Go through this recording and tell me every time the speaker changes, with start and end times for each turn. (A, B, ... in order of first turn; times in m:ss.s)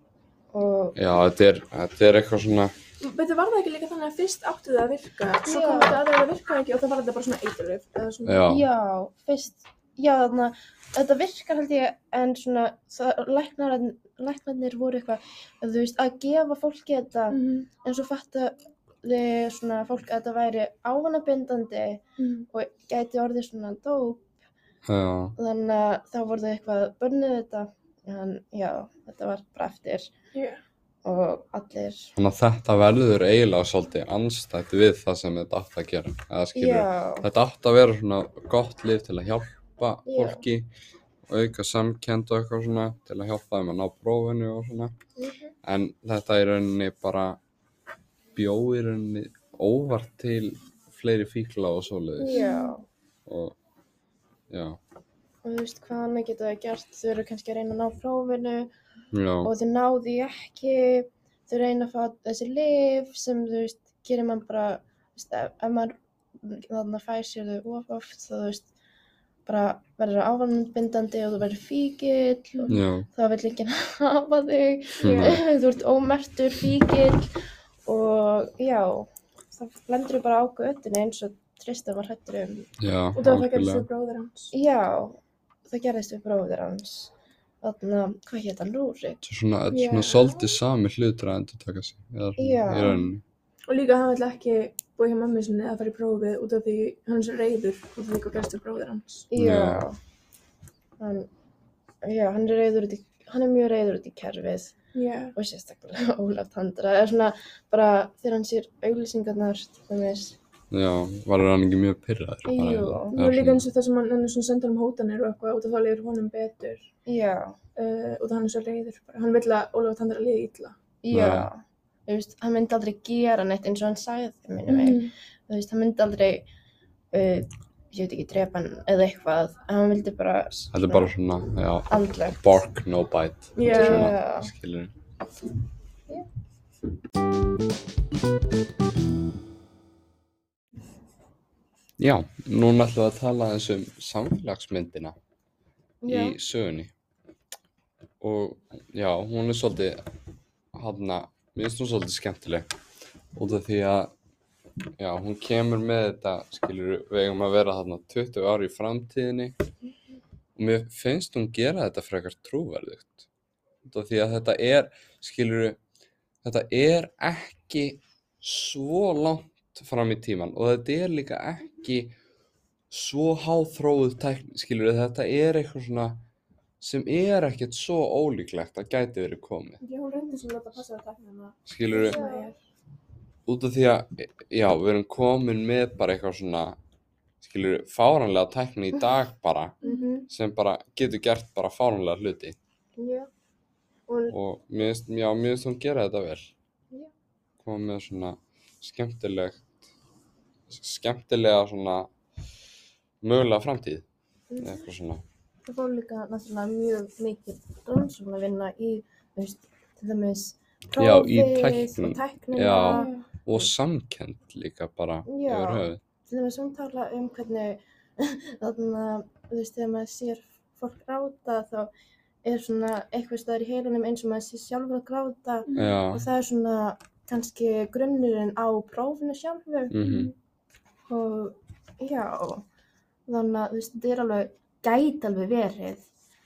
0:00.5-0:01.0 A
0:01.0-0:02.7 B
0:03.0-0:08.5 C
0:05.5-0:06.0 A
0:08.2-0:08.6 B
0:08.4-0:24.3 A
0:17.3-0:17.7 C
0:22.2-0:22.5 C
0:24.9-0:25.4 B
0:25.4-0:30.1 A
0:30.3-0:30.6 C
0:31.0-0:32.1 A
0:32.2-0:40.7 B
0:36.6-0:37.3 A
0:40.1-0:40.4 A
0:41.3-0:45.0 B
0:45.2-0:45.5 A
0:45.6-0:47.4 B
0:48.4-0:52.4 B
0:52.2-0:52.8 A
0:52.3-0:52.8 C
0:53.3-0:53.6 B
0:54.5-0:54.8 B
0:55.4-0:58.7 A
0:59.1-0:59.5 B
0:59.4-1:08.7 A
1:09.5-1:17.3 A
1:12.7-1:13.1 B
1:15.0-1:15.4 B
1:17.9-1:22.7 A
1:22.8-1:23.9 B
1:23.2-1:24.5 C
1:24.5-1:29.2 A
1:29.2-1:33.2 B
1:29.7-1:30.5 C
1:32.4-1:33.0 A
1:32.8-1:33.1 C
1:33.7-1:39.3 C
1:39.3-1:40.0 A
1:39.4-1:39.8 B
1:41.0-1:41.3 A
1:42.0-1:44.8 A
1:44.9-1:45.4 C
1:45.4-1:50.4 A
1:50.7-1:53.6 B
1:52.4-1:53.2 A
1:53.1-1:56.9 C
1:57.1-1:57.6 A
1:57.8-2:00.8 C
2:01.0-2:06.5 A
2:01.1-2:01.5 B
2:04.7-2:05.1 C
2:07.1-2:11.1 A
2:10.7-2:14.9 B
2:11.9-2:12.6 A
2:13.6-2:14.1 C
2:13.6-2:14.5 A
2:22.0-2:25.2 B
2:26.0-2:26.4 A
2:26.1-2:26.9 B
2:28.2-2:30.0 B
2:30.7-2:32.7 B
2:33.3-2:34.1 B
2:35.0-2:39.6 B
2:40.6-2:43.3 B
2:43.8-2:45.8 B
2:46.4-2:52.1 B
2:52.9-2:56.2 B
2:56.8-2:59.8 B
2:59.8-3:02.6 C
3:01.7-3:02.2 B
3:01.9-3:02.5 A
3:03.5-3:06.8 B
3:07.4-3:09.8 B
3:09.8-3:10.1 C
3:09.8-3:10.3 A
3:10.3-3:12.6 B
3:13.0-3:13.3 A
3:14.1-3:14.4 A
3:14.3-3:16.5 B
3:17.6-3:19.7 B
3:20.7-3:22.1 B
3:23.2-3:24.1 B
3:24.5-3:24.9 A
3:24.6-3:25.2 B
3:25.7-3:33.6 A
3:31.0-3:36.0 B
3:32.8-3:33.2 C
3:35.3-3:41.9 A
3:42.4-3:50.0 A
3:45.7-3:46.0 C
3:45.7-3:46.3 B
3:49.9-3:50.3 B
3:50.0-3:50.3 C
3:51.1-3:52.6 A
3:53.3-3:56.1 A